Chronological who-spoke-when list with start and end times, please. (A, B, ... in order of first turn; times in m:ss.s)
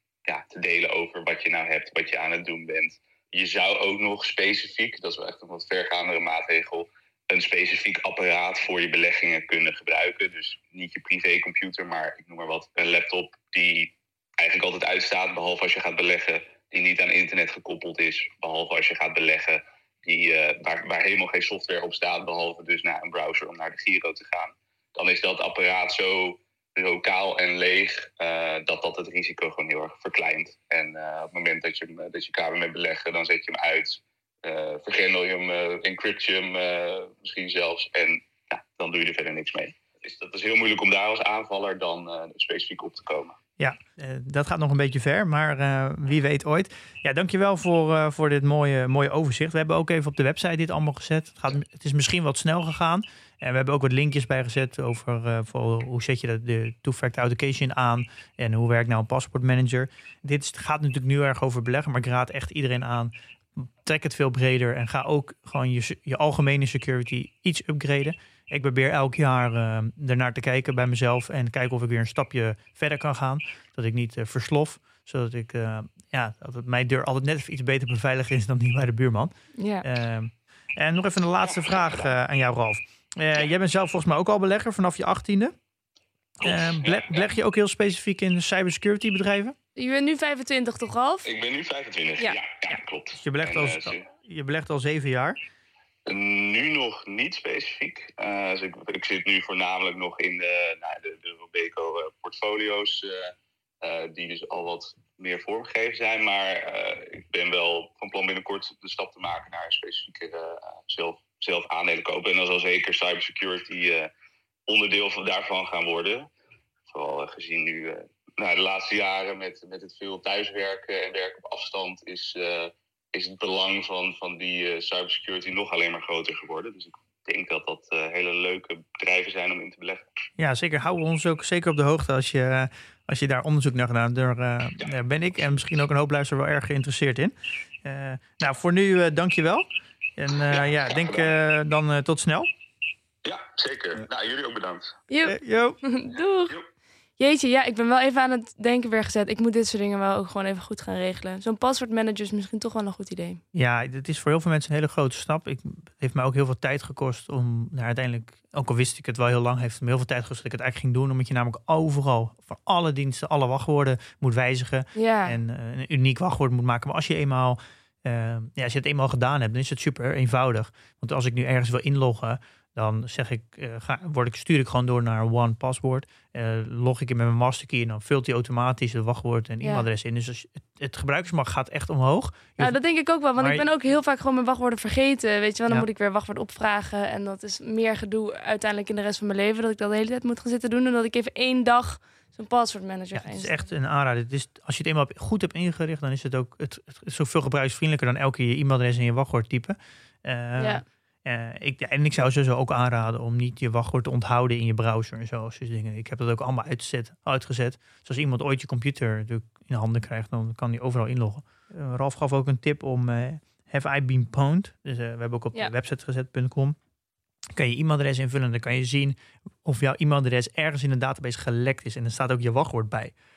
0:00.3-0:43.4 A
0:43.6-1:25.5 B
1:19.5-1:19.8 C
1:21.7-1:22.0 A
1:26.4-1:29.6 B
1:26.4-1:27.3 A
1:29.8-1:31.3 C
1:31.2-1:34.0 A
1:33.1-1:35.4 B
1:36.0-1:54.1 A
1:54.7-1:56.3 A
1:56.9-2:10.0 A
2:10.4-2:22.5 B
2:20.5-2:21.3 A
2:23.2-2:25.0 A
2:25.1-2:26.5 C
2:25.2-2:25.8 B
2:27.2-2:33.4 C
2:33.5-3:02.8 B
2:44.9-2:45.4 C
3:02.6-3:13.6 C
3:03.4-3:03.6 B
3:13.1-3:36.8 B
3:20.6-3:20.8 C
3:37.5-3:43.1 B